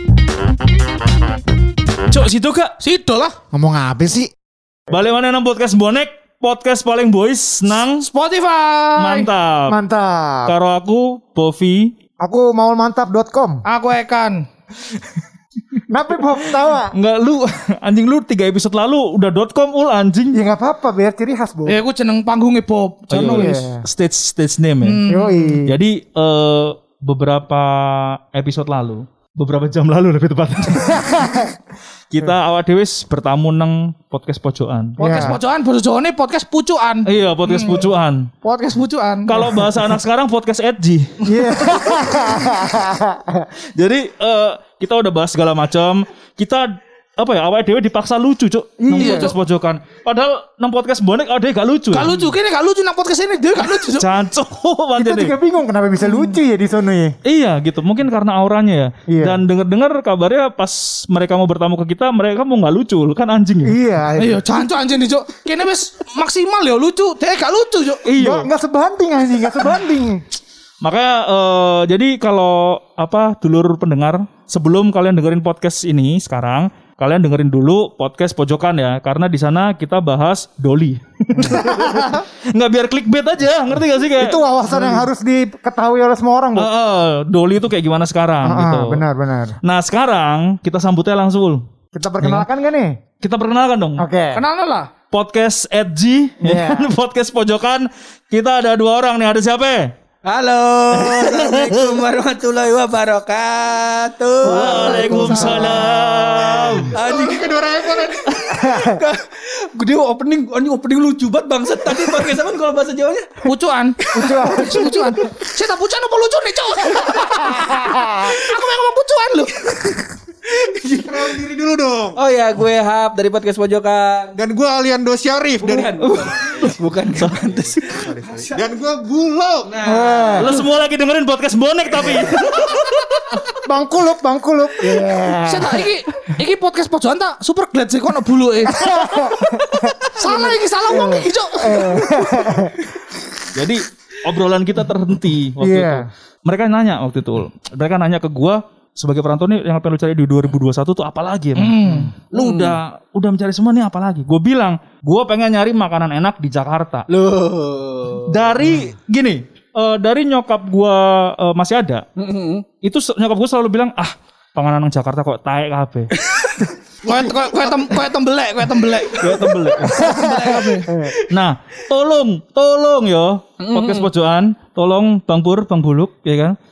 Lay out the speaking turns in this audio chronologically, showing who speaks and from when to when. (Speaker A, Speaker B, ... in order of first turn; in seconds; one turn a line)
Speaker A: 2.1-3.4
Speaker B: 2.1-2.6
Speaker C: 3.5-4.3
Speaker B: 4.9-8.1
Speaker A: 8.0-9.3
Speaker B: 9.0-9.8
Speaker C: 9.7-10.5
Speaker B: 10.5-11.9
Speaker C: 12.2-13.6
Speaker A: 13.7-14.5
Speaker C: 15.9-16.9
Speaker B: 16.9-20.4
Speaker C: 20.3-21.8
Speaker A: 21.7-23.6
Speaker B: 23.1-25.0
Speaker C: 23.2-23.8
Speaker A: 24.8-25.6
Speaker C: 25.1-25.8
Speaker B: 25.6-31.2
Speaker C: 30.8-31.5
Speaker B: 32.1-35.3
Speaker A: 35.0-37.9
Speaker C: 35.0-35.4
Speaker B: 37.1-38.3
Speaker A: 38.4-39.5
Speaker B: 39.3-42.4
Speaker C: 41.2-43.5
Speaker B: 43.8-52.2
Speaker C: 48.8-49.4
Speaker A: 49.0-49.4
Speaker A: 51.9-54.1
Speaker B: 53.8-55.4
Speaker C: 55.0-57.1
Speaker B: 57.3-63.8
Speaker C: 59.1-59.4
Speaker C: 63.6-64.6
Speaker A: 64.2-68.1
Speaker B: 68.0-68.5
Speaker C: 68.2-70.2
Speaker B: 70.8-85.1
Speaker A: 81.5-82.2
Speaker C: 84.2-86.7
Speaker B: 86.5-89.0
Speaker C: 88.4-89.6
Speaker B: 89.6-91.6
Speaker C: 91.9-93.0
Speaker B: 92.2-92.5
Speaker B: 93.2-94.0
Speaker C: 94.0-94.4
Speaker A: 94.3-94.9
Speaker B: 95.1-99.9
Speaker C: 96.4-96.9
Speaker D: 100.2-105.4
Speaker B: 100.9-102.0
Speaker B: 104.5-107.0
Speaker A: 104.5-105.7
Speaker C: 104.5-106.7
Speaker E: 106.3-108.6
Speaker D: 106.9-113.4
Speaker C: 108.5-109.0
Speaker A: 113.4-119.7
Speaker D: 114.0-115.4
Speaker C: 114.2-115.1
Speaker D: 116.9-117.6
Speaker C: 117.4-118.4
Speaker D: 119.7-121.4
Speaker E: 121.0-122.2
Speaker D: 122.2-124.4
Speaker E: 124.4-129.8
Speaker D: 125.6-128.6
Speaker B: 126.0-127.3
Speaker D: 129.7-130.6
Speaker C: 129.8-130.6
Speaker B: 130.4-133.4
Speaker C: 132.0-132.3
Speaker C: 133.7-135.9
Speaker A: 135.4-142.6
Speaker C: 138.7-139.9
Speaker C: 140.9-142.8
Speaker B: 143.5-157.1
Speaker C: 145.6-146.1
Speaker A: 151.6-152.1
Speaker D: 152.3-152.8
Speaker D: 157.1-158.5
Speaker B: 158.3-162.1
Speaker D: 162.2-162.7
Speaker B: 162.8-166.1
Speaker D: 166.3-166.7
Speaker A: 167.0-170.9
Speaker B: 169.2-170.0
Speaker C: 169.9-171.2
Speaker B: 171.2-176.6
Speaker D: 173.6-174.1